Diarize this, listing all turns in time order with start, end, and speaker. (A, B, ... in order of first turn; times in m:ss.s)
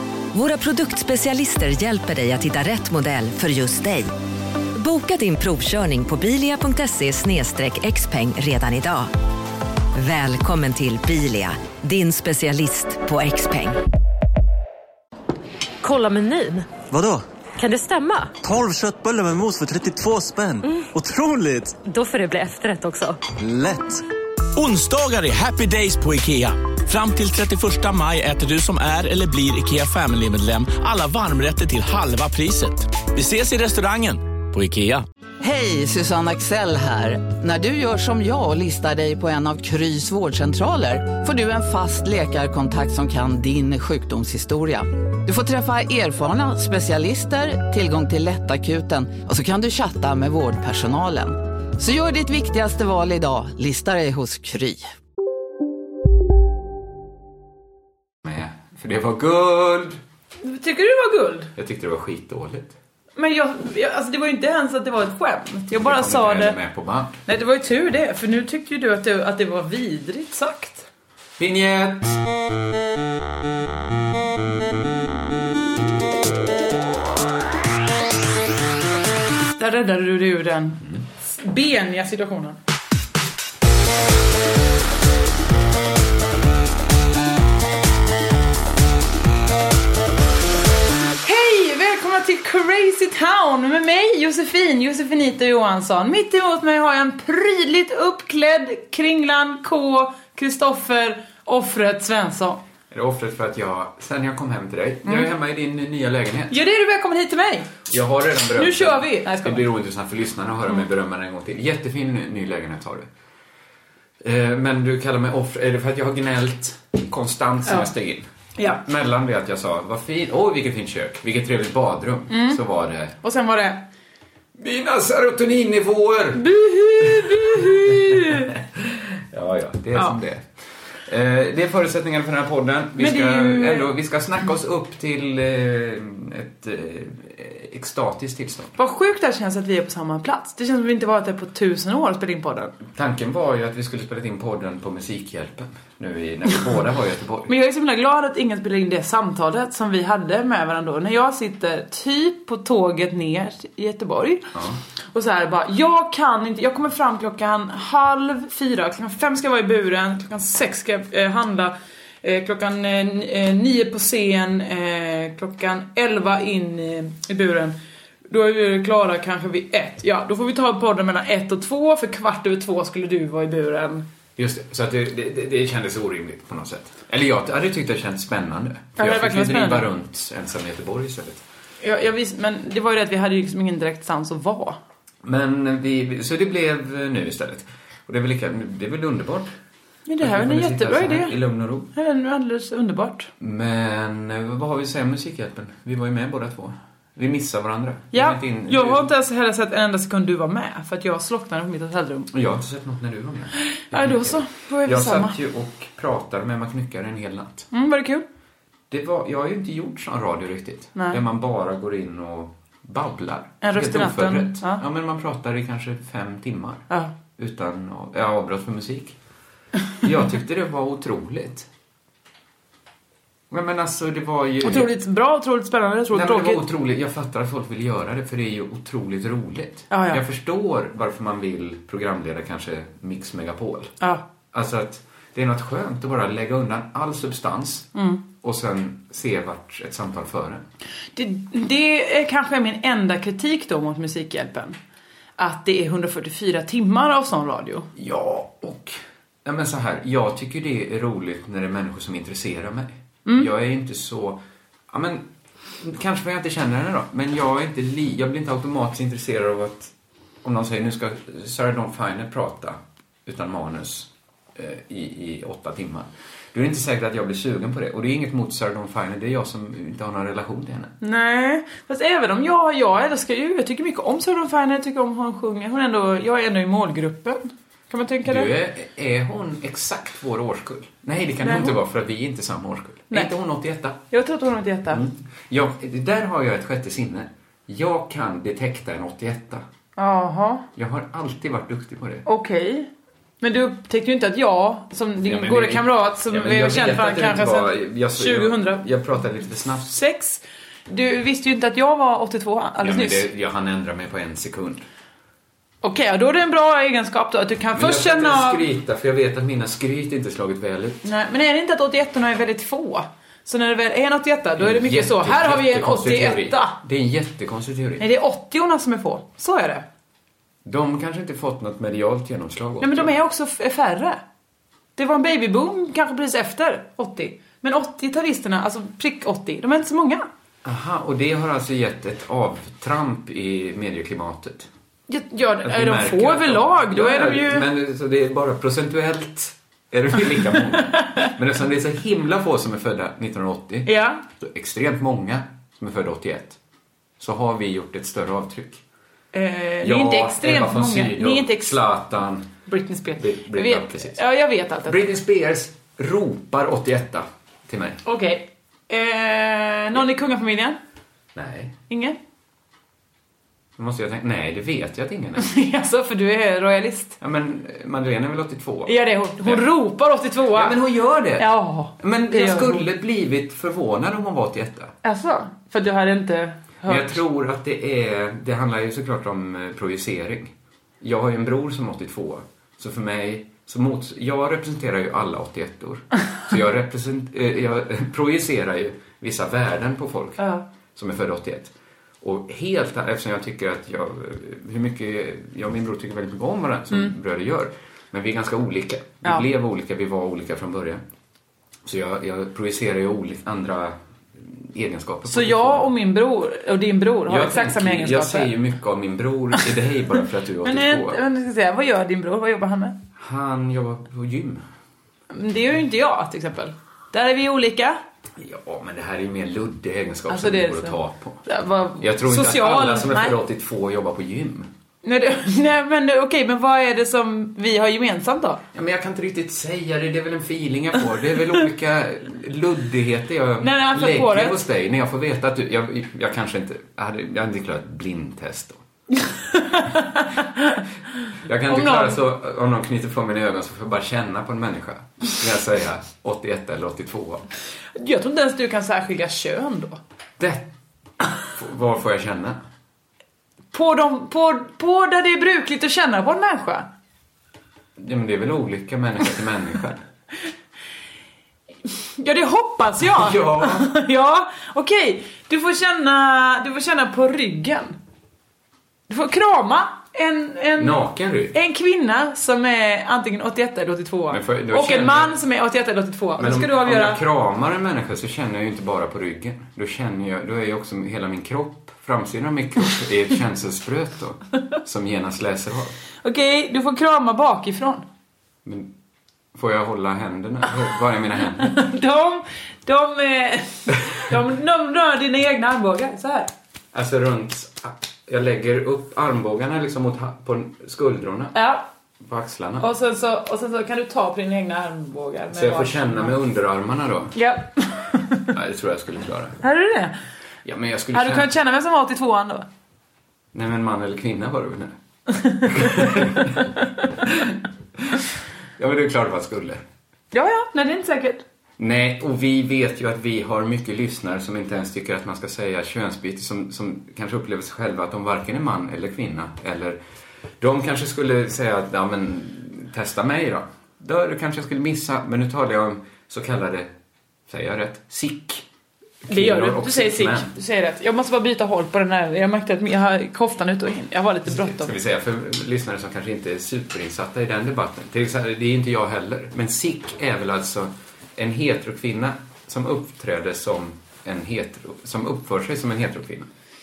0:00.3-0:04.1 A
0:04.8-0:09.1 A
0:10.0-0:13.8 A
0:15.8-0:16.7 B
0:16.9-0:17.2 C
0:17.6-0:18.4 B
0:18.4-0:21.8 C
0:21.8-0:23.2 B
0:23.4-0:24.0 C
0:24.6-0:35.0 D
0:35.4-0:54.9 E
0:58.2-1:00.0 F
1:00.4-1:01.5 G
1:01.6-1:02.8 F
1:03.2-1:06.6 G
1:05.7-1:07.2 F
1:07.3-1:10.9 G
1:11.4-1:12.2 F
1:19.5-1:22.6 G
1:31.2-1:42.6 G
1:42.9-1:46.6 F
1:46.5-1:47.8 G
1:47.9-1:53.1 F
1:48.6-1:49.7 G
1:54.2-2:03.2 F
1:57.7-1:57.9 G
1:58.6-1:58.8 G
2:02.3-2:02.6 G
2:03.2-2:03.8 G
2:04.6-2:06.4 F
2:06.4-2:08.5 G
2:07.0-2:18.8 F
2:13.0-2:13.9 G
2:18.8-2:22.8 G
2:22.9-2:27.5 F
2:27.5-2:34.5 G
2:34.6-2:34.8 F
2:35.1-2:47.8 G
2:48.3-2:54.1 G
2:54.4-3:01.4 F
2:59.0-2:59.9 G
3:01.8-3:04.8 G
3:05.2-3:09.5 F
3:10.1-3:11.4 G
3:10.2-3:11.9 F
3:11.9-3:13.3 G
3:13.4-3:19.1 F
3:18.1-3:22.3 G
3:22.3-3:27.7 F
3:23.7-3:25.4 G
3:27.7-3:28.2 G
3:28.9-3:36.8 F
3:31.0-3:31.2 G
3:33.6-3:34.8 G
3:37.4-3:39.2 F
3:40.0-3:41.7 F
3:43.5-3:44.9 F
3:44.6-3:46.6 G
3:46.1-3:53.9 F
3:49.9-3:50.2 G
3:54.5-3:57.9 F
3:58.0-3:58.2 G
3:58.4-4:00.6 F
4:01.2-4:04.8 G
4:05.4-4:07.9 G
4:08.0-4:15.3 F
4:15.8-4:31.0 F
4:31.0-4:38.5 G
4:38.2-4:44.0 F
4:41.4-4:41.8 G
4:44.1-4:45.0 G
4:44.9-4:49.6 F
4:50.0-4:50.6 G
4:50.8-4:52.2 F
4:52.3-4:52.9 G
4:53.4-4:58.8 G
4:55.2-4:59.9 F
4:59.8-5:03.3 G
5:02.8-5:04.8 F
5:05.8-5:08.7 G
5:07.8-5:11.0 F
5:11.0-5:16.8 G
5:14.6-5:18.1 F
5:18.0-5:19.8 G
5:20.6-5:23.1 F
5:22.8-5:24.2 G
5:25.0-5:30.3 G
5:30.6-5:34.7 F
5:35.1-5:37.7 G
5:35.6-5:46.6 F
5:40.9-5:41.3 G
5:43.9-5:44.2 G
5:47.2-5:48.8 F
5:49.3-5:51.8 G
5:49.8-5:52.5 F
5:52.7-5:55.1 G
5:53.2-5:54.2 F
5:54.9-5:58.0 F
5:58.0-6:00.8 G
6:01.4-6:01.8 F
6:01.9-6:02.2 G
6:03.8-6:05.5 F
6:05.4-6:07.2 G
6:07.2-6:09.7 F
6:08.9-6:10.8 G
6:10.5-6:15.0 F
6:11.4-6:12.9 G
6:15.0-6:17.2 G
6:16.8-6:41.0 F
6:30.4-6:30.6 G
6:41.8-6:45.9 F
6:45.3-6:48.5 G
6:47.3-6:51.2 F
6:50.6-6:53.0 G
6:53.2-6:54.6 F
6:55.3-6:58.0 G
6:58.4-7:01.4 F
7:00.3-7:03.4 G
7:02.0-7:04.7 F
7:05.0-7:08.6 G
7:08.7-7:18.8 F
7:13.6-7:14.6 G
7:19.2-7:20.8 G
7:21.4-7:27.4 F
7:21.7-7:22.2 G
7:28.0-7:30.0 G
7:30.4-7:30.7 F
7:31.5-7:32.6 F
7:33.7-7:36.9 G
7:38.0-7:40.0 F
7:41.9-7:48.0 G
7:43.0-7:43.9 F
7:49.1-7:57.2 G
7:50.8-7:51.6 F
7:54.3-7:55.4 F
7:56.4-8:06.0 F
8:06.2-8:08.1 G
8:08.6-8:08.9 F
8:09.5-8:11.8 F
8:11.6-8:16.5 G
8:16.9-8:21.6 F
8:21.5-8:21.9 G
8:22.2-8:22.9 F
8:22.8-8:26.4 G
8:25.5-8:27.4 F
8:27.3-8:28.5 G
8:28.5-8:29.6 F
8:29.6-8:30.2 G
8:30.6-8:31.5 F
8:31.1-8:32.7 G
8:33.5-8:35.0 F
8:35.4-8:36.1 G
8:35.6-8:37.6 F
8:38.8-8:39.8 F
8:40.3-8:41.4 G
8:41.8-8:50.0 F
8:50.6-8:56.9 F
8:57.5-8:58.7 F
8:59.3-9:00.5 F
8:59.3-9:04.9 G
9:04.5-9:16.5 F